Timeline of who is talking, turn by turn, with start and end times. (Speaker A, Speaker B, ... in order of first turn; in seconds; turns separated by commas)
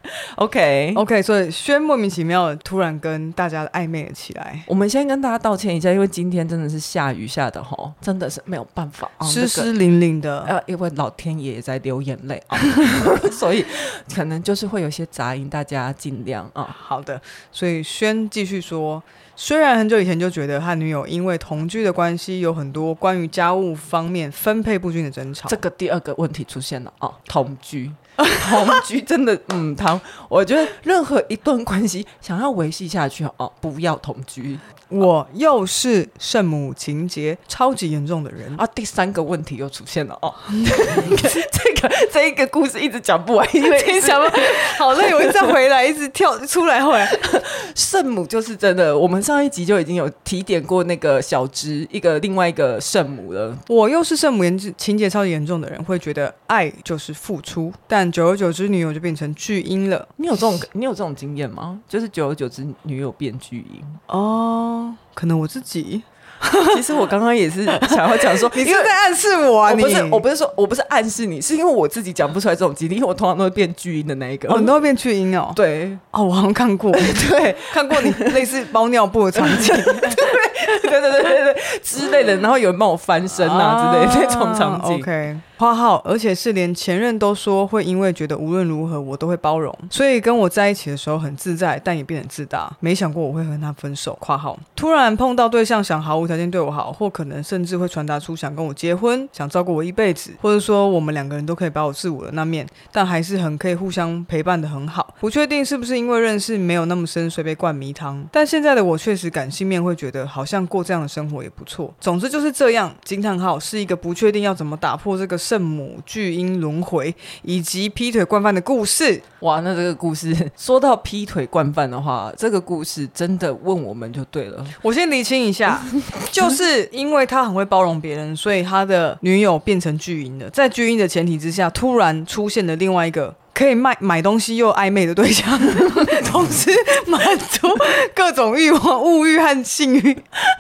Speaker A: 0.4-1.0, Speaker B: 0.9-4.7, Speaker A: 4.7-9.7, Speaker B: 9.2-10.5, Speaker A: 10.4-16.8, Speaker B: 16.8-25.6, Speaker A: 25.5-34.6, Speaker B: 28.3-28.8, Speaker B: 34.9-38.6, Speaker A: 38.5-45.5, Speaker B: 43.6-47.3, Speaker A: 47.1-53.6, Speaker B: 53.7-60.1, Speaker A: 60.2-64.0, Speaker B: 64.1-66.8, Speaker A: 66.7-68.9, Speaker B: 67.8-70.2, Speaker A: 69.6-74.8, Speaker B: 74.5-75.6, Speaker A: 75.5-76.0, Speaker B: 76.1-80.2, Speaker A: 76.9-78.5, Speaker A: 79.3-85.1, Speaker B: 83.3-119.2, Speaker A: 119.4-124.8, Speaker B: 124.8-140.3